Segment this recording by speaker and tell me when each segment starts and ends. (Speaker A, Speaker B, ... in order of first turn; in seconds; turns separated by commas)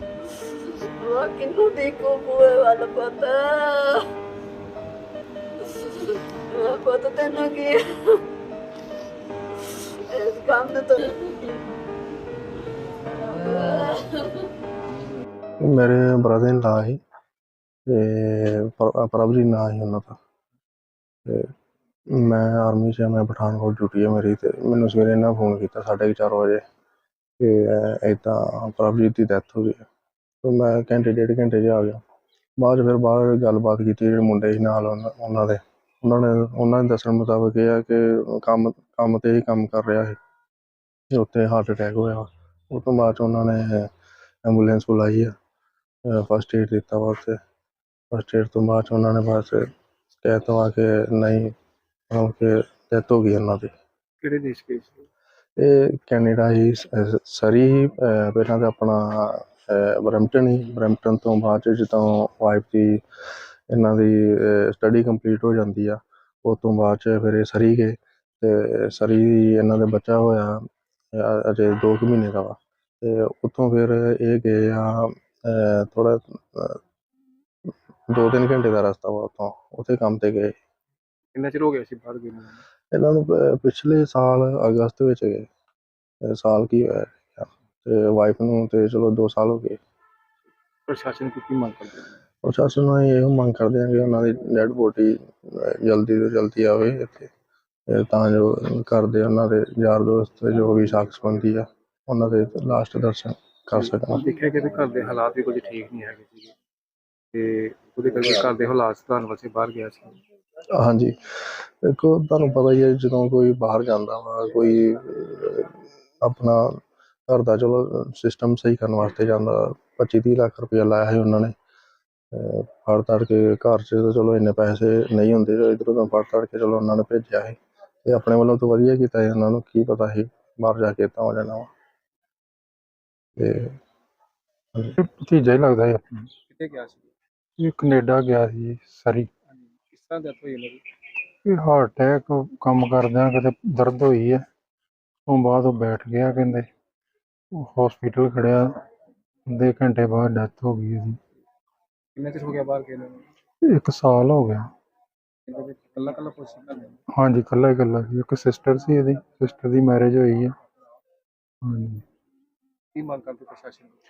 Speaker A: 0.3-4.1, Speaker A: 5.6-8.2, Speaker A: 9.6-11.6, Speaker A: 13.2-14.4, Speaker B: 15.6-17.0, Speaker B: 17.9-20.2, Speaker B: 22.1-26.6, Speaker B: 27.4-29.8, Speaker B: 30.4-32.0, Speaker B: 32.6-40.2, Speaker B: 41.1-43.9, Speaker B: 44.4-45.3, Speaker B: 46.0-47.4, Speaker B: 48.1-51.5, Speaker B: 52.1-53.7, Speaker C: 54.2-55.0, Speaker B: 55.6-63.0, Speaker B: 63.7-70.6, Speaker B: 71.1-76.8, Speaker B: 78.1-80.5, Speaker C: 81.3-82.6, Speaker B: 82.9-85.5, Speaker B: 86.2-89.8, Speaker C: 90.9-92.1, Speaker B: 92.4-97.3, Speaker B: 97.9-104.2, Speaker C: 103.7-106.5, Speaker C: 107.3-110.2, Speaker B: 110.8-121.5, Speaker B: 122.3-131.7, Speaker B: 133.3-133.7, Speaker D: 135.0-136.3, Speaker C: 136.5-137.1, Speaker D: 137.6-139.3, Speaker C: 139.7-140.8, Speaker D: 141.4-144.4, Speaker D: 145.3-146.7, Speaker D: 147.5-148.7, Speaker D: 149.5-151.2, Speaker C: 152.2-153.2, Speaker D: 153.6-154.7, Speaker C: 155.5-157.0, Speaker D: 157.1-160.5, Speaker D: 161.6-162.0, Speaker C: 162.9-163.9